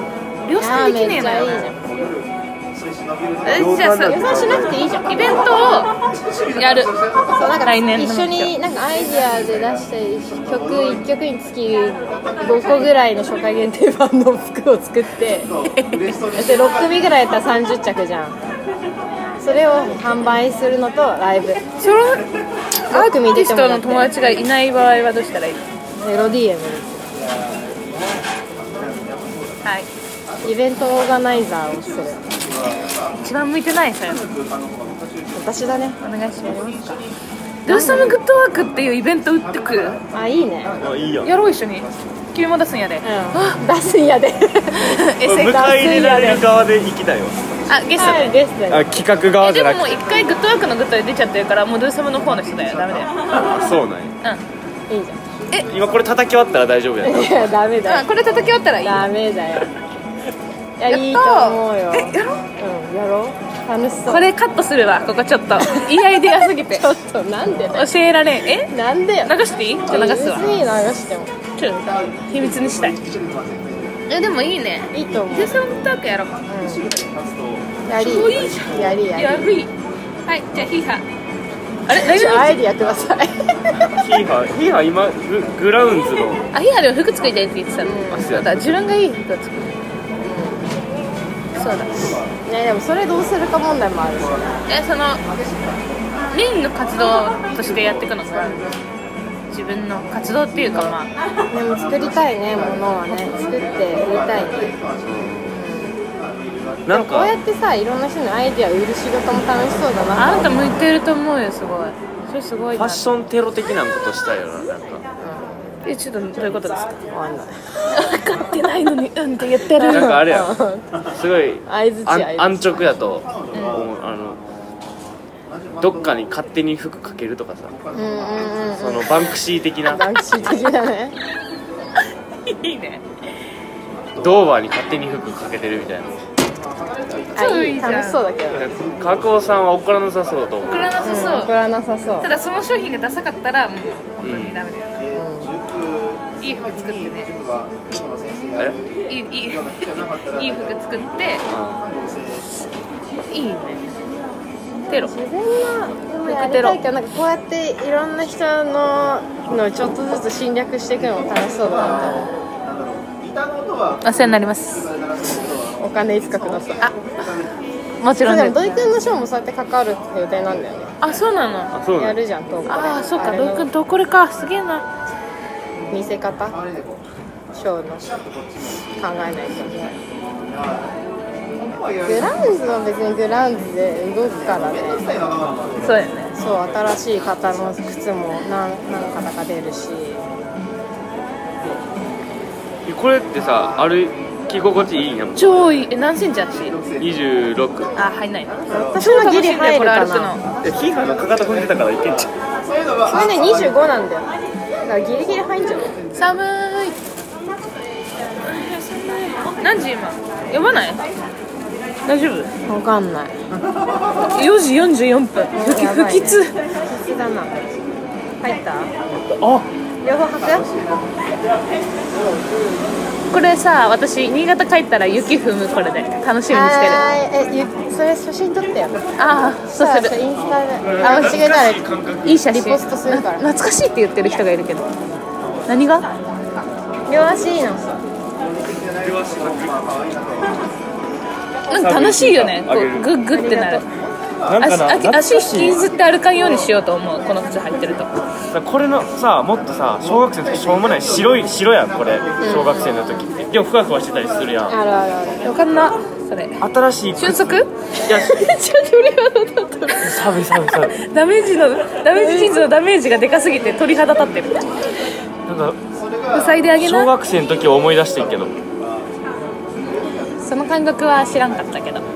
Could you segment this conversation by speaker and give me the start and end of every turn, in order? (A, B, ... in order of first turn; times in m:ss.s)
0:00.4-0:01.7 A
0:00.6-0:01.9 B
0:03.4-0:04.4 A
0:03.5-0:05.0 C
0:04.0-0:05.6 B
0:05.1-0:05.9 A
0:06.5-0:06.9 A
0:07.3-0:15.5 B
0:07.6-0:08.6 A
0:15.7-0:16.6 A
0:16.3-0:18.4 B
0:19.4-0:21.6 B
0:21.8-0:22.3 A
0:22.9-0:25.6 A
0:22.9-0:24.3 B
0:26.0-0:27.2 B
0:29.6-0:29.9 A
0:30.4-0:32.4 B
0:33.2-0:34.3 A
0:35.4-0:36.0 B
0:36.0-0:37.1 A
0:37.7-0:40.0 A
0:37.7-0:38.2 B
0:40.1-0:40.8 B
0:40.8-0:41.3 C
0:41.2-0:43.6 A
0:43.0-0:46.4 B
0:44.7-0:46.4 A
0:45.0-0:47.4 C
0:47.7-0:48.3 A
0:48.0-0:49.0 B
0:48.7-0:50.0 C
0:49.4-0:53.1 A
0:53.3-0:54.1 C
0:54.9-0:55.2 B
0:55.6-0:57.5 C
0:57.0-0:58.1 B
0:57.8-0:59.0 A
0:58.8-0:59.7 B
1:00.8-1:04.3 B
1:00.9-1:02.4 A
1:04.1-1:06.9 A
1:05.6-1:06.0 B
1:06.7-1:07.9 B
1:07.7-1:08.7 A
1:08.7-1:11.3 B
1:09.2-1:10.5 A
1:11.6-1:13.0 A
1:14.1-1:16.4 A
1:14.9-1:15.8 B
1:16.5-1:16.9 B
1:17.9-1:19.6 B
1:17.9-1:19.7 A
1:20.3-1:21.0 A
1:21.9-1:22.6 A
1:21.9-1:24.0 B
1:24.0-1:26.4 C
1:26.5-1:29.8 A
1:27.8-1:28.4 B
1:28.1-1:28.7 C
1:30.2-1:30.7 B
1:31.6-1:32.1 A
1:32.5-1:34.5 B
1:34.7-1:35.2 A
1:36.3-1:38.8 A
1:39.5-1:41.1 A
1:40.7-1:41.0 B
1:41.5-1:44.8 B
1:45.0-1:45.6 C
1:45.4-1:46.0 B
1:46.9-1:47.3 C
1:46.9-1:50.9 B
1:50.2-1:53.1 A
1:52.8-1:55.0 C
1:55.2-1:55.9 B
1:55.8-1:57.0 A
1:57.0-1:57.6 B
1:57.9-2:00.2 A
1:59.8-2:01.0 B
1:59.9-2:00.6 C
2:01.2-2:04.4 C
2:01.7-2:03.0 B
2:03.5-2:03.8 A
2:05.8-2:07.8 C
2:07.9-2:11.2 B
2:08.8-2:10.1 C
2:12.4-2:13.0 A
2:14.2-2:16.2 C
2:17.4-2:18.2 A
2:17.4-2:18.7 B
2:18.5-2:21.0 C
2:20.7-2:21.5 A
2:21.0-2:22.3 B
2:22.2-2:25.0 A
2:24.2-2:24.6 C
2:25.1-2:25.6 B
2:26.4-2:27.3 A
2:29.1-2:31.4 A
2:31.5-2:31.8 C
2:33.3-2:34.0 A
2:34.9-2:35.1 A
2:35.0-2:42.4 B
2:36.3-2:36.8 A
2:44.0-2:44.9 A
2:45.8-2:46.9 B
2:48.0-2:48.8 A
2:48.2-2:51.0 B
2:51.0-2:51.8 A
2:51.7-2:52.2 C
2:52.0-2:53.7 B
2:52.7-2:54.9 A
2:55.9-2:56.6 B
2:57.5-2:58.2 B
2:59.0-3:00.0 B
3:02.0-3:05.3 B
3:05.8-3:06.3 A
3:06.4-3:10.3 B
3:12.9-3:15.5 C
3:15.4-3:16.8 A
3:17.0-3:17.9 C
3:18.0-3:20.4 A
3:18.7-3:20.4 B
3:20.6-3:22.3 C
3:23.1-3:24.3 B
3:24.8-3:26.0 B
3:26.2-3:27.1 A
3:28.4-3:31.1 A
3:32.1-3:32.5 A
3:32.7-3:33.4 B
3:34.3-3:36.5 A
3:35.5-3:38.9 B
3:39.3-3:39.7 C
3:40.0-3:40.8 B
3:42.2-3:42.8 B
3:43.3-3:47.0 A
3:46.5-3:51.9 B
3:49.2-3:50.2 A
3:50.8-3:52.4 C
3:51.0-3:51.4 A
3:52.2-3:54.9 A
3:52.5-3:53.5 B
3:55.7-3:56.1 A
3:57.1-3:58.0 B
3:59.0-4:00.0 C
4:01.7-4:03.8 A
4:01.7-4:03.1 C
4:03.3-4:03.8 B
4:04.5-4:05.8 C
4:04.6-4:08.1 A
4:08.5-4:14.8 C
4:12.4-4:13.3 B
4:14.7-4:15.6 B
4:15.4-4:16.6 A
4:16.6-4:18.5 C
4:17.2-4:20.2 A
4:20.0-4:21.0 C
4:20.9-4:24.6 A
4:22.1-4:22.6 B
4:25.5-4:25.8 C
4:26.3-4:27.1 A
4:26.7-4:28.5 C
4:30.4-4:32.1 A